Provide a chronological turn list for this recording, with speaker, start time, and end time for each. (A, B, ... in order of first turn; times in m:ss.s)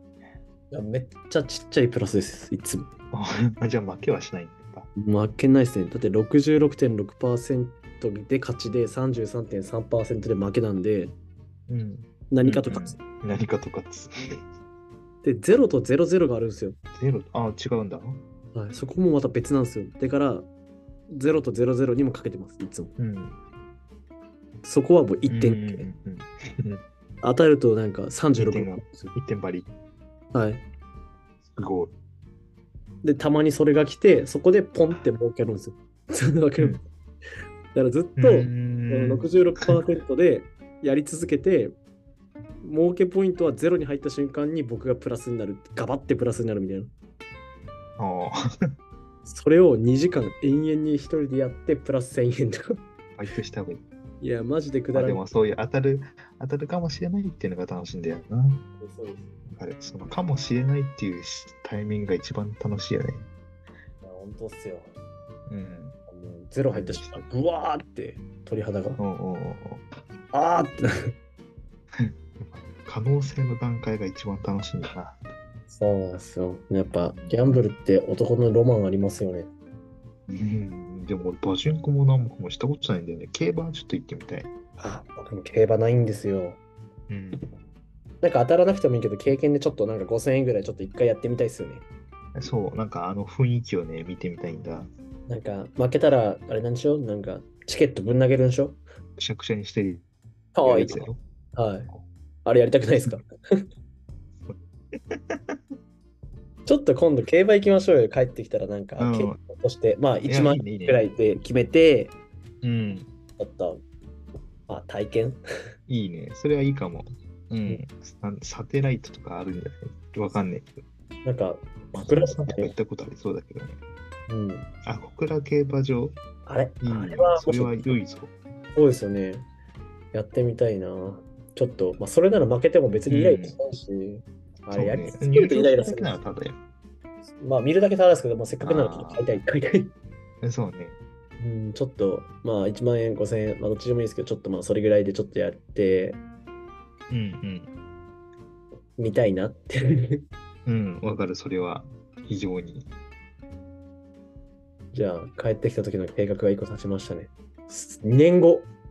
0:00.7-0:02.9 A
0:03.1-0:04.9 B
0:05.0-0:11.1 A
0:11.7-0:14.4 B
0:12.3-0:13.0 A
0:15.2-0:16.8 A
0:17.0-0:18.2 B
0:18.5-0:20.5 A
0:21.1-0:22.9 A
0:23.0-0:23.4 B
0:24.6-0:25.9 A
0:25.3-0:26.8 B
0:27.2-0:29.1 A
0:28.3-0:29.7 B
0:30.3-0:30.6 A
0:31.4-0:31.9 B
0:33.0-0:36.8 A
0:37.7-0:41.8 A
0:38.2-0:39.8 B
0:42.6-0:46.9 A
0:48.0-0:48.4 B
0:49.2-0:52.8 A
0:53.2-0:53.8 B
0:54.2-0:55.2 A
0:54.9-0:58.6 B
0:58.8-0:59.3 A
0:59.5-1:03.3 B
1:04.0-1:04.9 A
1:05.5-1:06.0 B
1:06.1-1:09.0 A
1:06.7-1:07.2 B
1:09.0-1:09.8 B
1:10.3-1:11.1 A
1:12.0-1:15.2 B
1:15.7-1:19.5 A
1:17.2-1:17.5 B
1:20.3-1:24.5 B
1:24.8-1:26.6 A
1:27.1-1:27.4 B
1:28.2-1:31.8 A
1:32.4-1:34.9 B
1:35.3-1:38.8 A
1:39.2-1:40.0 B
1:40.5-1:41.9 A
1:40.6-1:41.2 B
1:42.4-1:43.6 A
1:44.4-1:45.6 B
1:46.6-1:52.1 A
1:49.0-1:49.4 B
1:50.2-1:51.0 B
1:52.6-1:53.1 B
1:53.4-1:53.8 A
1:54.7-1:55.4 A
1:55.9-2:00.8 B
2:01.2-2:02.7 A
2:01.9-2:03.8 B
2:04.3-2:04.7 A
2:04.8-2:06.2 B
2:06.4-2:07.8 A
2:06.8-2:08.3 B
2:08.7-2:09.4 A
2:10.1-2:16.3 A
2:13.1-2:13.6 B
2:14.7-2:16.6 B
2:17.4-2:19.9 A
2:18.6-2:19.3 B
2:20.4-2:21.0 B
2:21.4-2:26.2 A
2:27.1-2:27.7 B
2:29.0-2:30.2 A
2:30.6-2:32.9 B
2:34.9-2:38.7 A